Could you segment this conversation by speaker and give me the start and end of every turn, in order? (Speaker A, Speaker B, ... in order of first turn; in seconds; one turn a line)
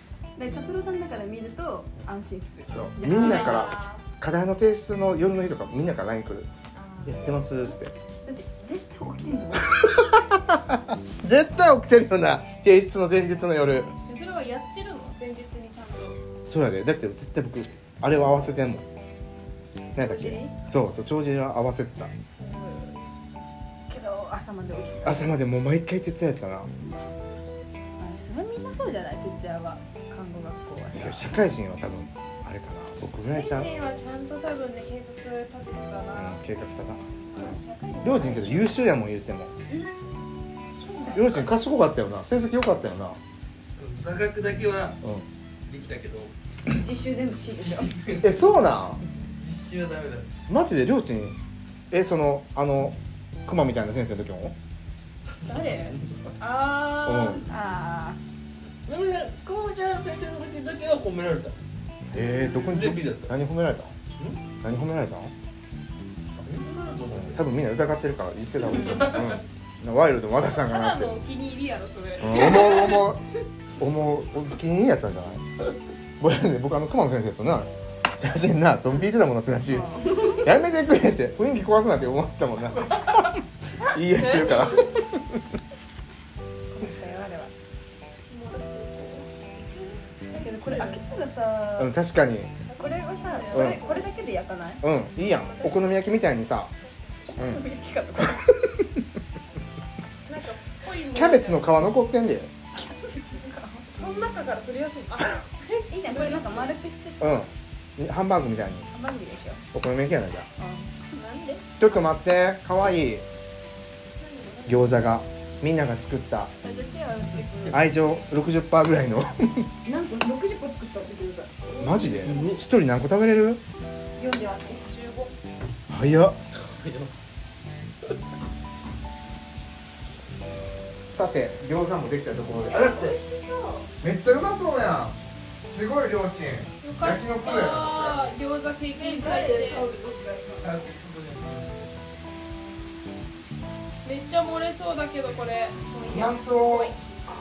Speaker A: 0.3-3.7
Speaker B: 2.6-6.5
Speaker C: 3.0-4.0
Speaker C: 6.7-7.7
Speaker B: 7.0-7.9
Speaker A: 8.2-9.9
Speaker B: 9.7-13.9
Speaker C: 14.1-16.2
Speaker B: 16.5-18.8
Speaker B: 19.9-22.1
Speaker C: 20.0-20.5
Speaker C: 22.4-23.0
Speaker A: 23.9-25.4
Speaker B: 25.0-26.7
Speaker A: 28.0-31.4
Speaker B: 30.9-33.7
Speaker C: 33.3-36.4
Speaker B: 36.1-37.0
Speaker C: 37.3-38.8
Speaker B: 38.0-39.5
Speaker C: 40.8-41.5
Speaker B: 41.1-43.2
Speaker D: 43.8-45.0
Speaker D: 45.7-46.3
Speaker A: 46.7-47.9
Speaker D: 47.9-48.3
Speaker B: 48.2-49.0
Speaker D: 49.4-50.3
Speaker B: 50.5-51.4
Speaker B: 51.9-54.5
Speaker C: 55.5-57.4
Speaker B: 57.0-57.4
Speaker A: 57.4-58.2
Speaker D: 58.9-61.5
Speaker B: 62.1-63.9
Speaker D: 62.7-63.3
Speaker D: 64.2-64.4
Speaker B: 64.6-65.3
Speaker D: 66.4-67.5
Speaker B: 67.1-71.1
Speaker C: 70.5-73.1
Speaker B: 72.2-73.2
Speaker B: 73.8-75.4
Speaker B: 76.2-85.4
Speaker A: 79.7-80.4
Speaker A: 84.2-84.8
Speaker C: 84.2-84.8
Speaker A: 86.7-87.5
Speaker C: 88.3-91.0
Speaker A: 90.3-91.9
Speaker B: 91.8-92.5
Speaker C: 92.7-94.1
Speaker A: 92.7-94.8
Speaker B: 93.5-93.8
Speaker B: 94.8-96.7
Speaker C: 95.2-96.1
Speaker C: 96.8-97.4
Speaker A: 97.4-98.5
Speaker C: 100.2-101.7
Speaker B: 101.0-102.5
Speaker A: 102.8-103.9
Speaker C: 103.9-106.7
Speaker A: 105.9-107.5
Speaker B: 107.2-108.9
Speaker A: 108.9-109.6
Speaker B: 109.7-110.5
Speaker A: 110.6-111.0
Speaker C: 111.1-111.6
Speaker B: 111.8-113.2
Speaker C: 114.2-114.9
Speaker B: 114.7-116.5
Speaker A: 116.6-117.8
Speaker B: 117.7-119.7
Speaker A: 119.8-122.3
Speaker B: 121.8-123.6
Speaker D: 122.0-122.6
Speaker A: 124.2-124.9
Speaker C: 124.8-125.3
Speaker B: 125.9-126.4
Speaker D: 126.5-127.1
Speaker B: 131.1-133.2
Speaker A: 132.7-133.9
Speaker B: 134.0-138.3
Speaker C: 136.8-139.9
Speaker A: 138.9-140.7
Speaker D: 140.6-141.9
Speaker C: 144.0-146.2
Speaker A: 145.9-146.9
Speaker B: 146.1-146.9